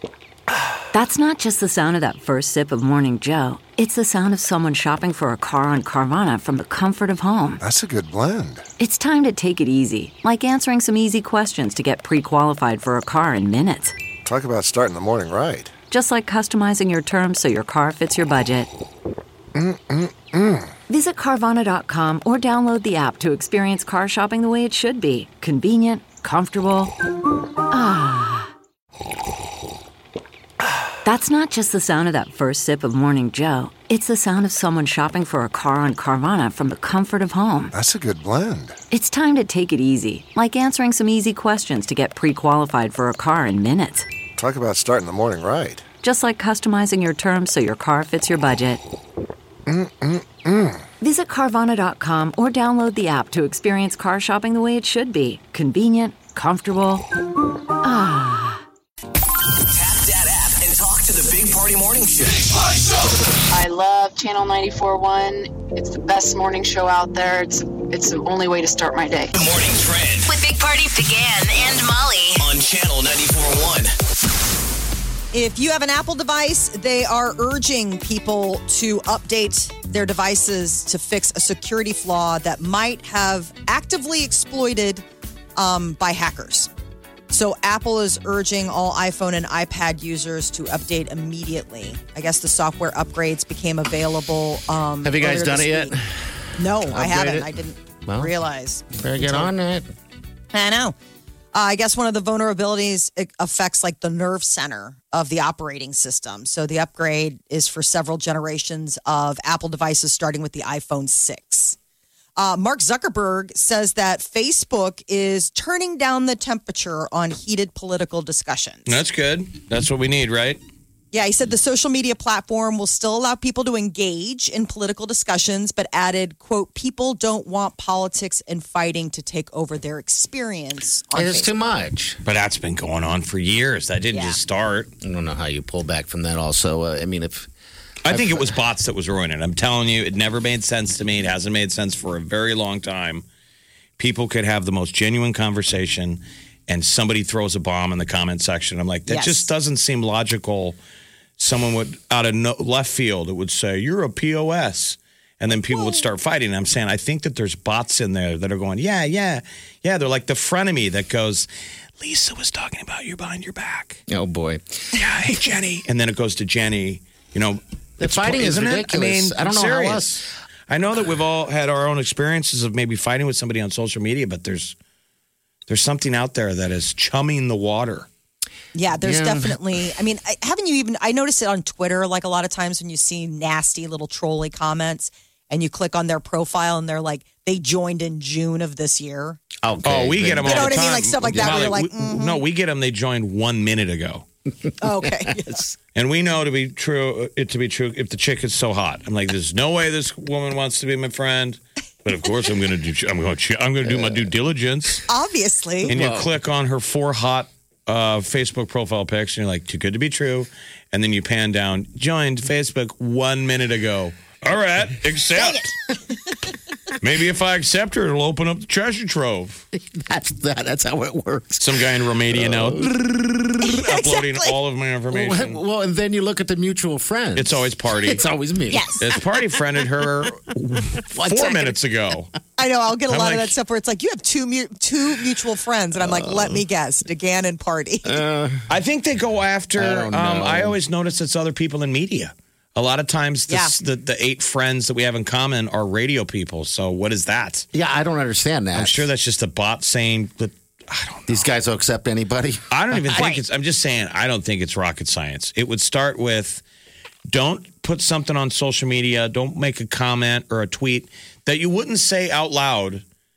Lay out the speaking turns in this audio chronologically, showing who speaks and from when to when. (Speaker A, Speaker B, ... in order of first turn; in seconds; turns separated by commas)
Speaker A: 0.9-7.6, Speaker B: 7.6-8.6, Speaker A: 8.8-13.9, Speaker B: 14.2-15.7, Speaker A: 15.9-18.7, Speaker B: 19.5-20.7, Speaker A: 20.9-26.9, Speaker A: 27.7-28.5, Speaker A: 31.0-37.7, Speaker B: 37.7-38.8, Speaker A: 38.9-44.0, Speaker B: 44.4-45.8, Speaker A: 46.0-48.8, Speaker B: 49.6-50.9, Speaker A: 51.0-57.0, Speaker A: 57.8-58.6, Speaker C: 59.7-63.0, Speaker D: 63.5-69.3, Speaker C: 69.3-70.3, Speaker E: 70.3-72.4, Speaker C: 72.4-73.9, Speaker F: 75.3-85.0, Speaker F: 85.6-86.7, Speaker F: 87.3-95.9, Speaker G: 95.0-97.5, Speaker F: 96.6-99.5, Speaker G: 98.0-98.3, Speaker G: 98.9-99.9, Speaker F: 100.5-101.0, Speaker F: 101.5-111.8, Speaker F: 112.4-119.0, Speaker H: 118.9-120.6, Speaker F: 121.1-131.5, Speaker G: 131.1-132.2, Speaker H: 132.2-134.9, Speaker F: 134.1-134.4, Speaker G: 135.0-137.5, Speaker H: 138.0-143.2, Speaker G: 138.1-138.5, Speaker H: 144.0-150.8, Speaker F: 149.1-149.5, Speaker H: 151.4-161.5, Speaker F: 155.7-156.0, Speaker H: 162.0-164.0, Speaker G: 164.1-165.0, Speaker H: 164.9-174.7, Speaker G: 168.0-170.2, Speaker H: 175.7-178.1, Speaker F: 178.7-189.4, Speaker G: 179.0-179.6, Speaker G: 189.6-191.8, Speaker H: 189.8-194.2, Speaker F: 190.4-192.4, Speaker F: 194.8-195.6, Speaker G: 195.0-195.7, Speaker H: 195.9-205.1, Speaker G: 203.8-204.3, Speaker F: 205.1-205.9, Speaker G: 205.9-206.3, Speaker H: 205.9-215.7, Speaker H: 217.0-219.6, Speaker G: 219.7-223.4, Speaker H: 221.6-225.6, Speaker F: 223.6-224.5, Speaker G: 225.1-229.4, Speaker H: 227.3-228.2, Speaker F: 228.7-229.0, Speaker H: 229.0-232.3, Speaker G: 231.0-231.8, Speaker F: 232.6-238.2, Speaker H: 233.1-233.5, Speaker G: 236.0-236.6, Speaker G: 238.0-238.7, Speaker H: 238.7-247.7, Speaker G: 239.8-240.8, Speaker F: 243.5-243.7, Speaker G: 247.7-249.1, Speaker H: 248.7-251.5, Speaker G: 251.3-253.2, Speaker H: 252.7-256.6, Speaker H: 257.3-263.0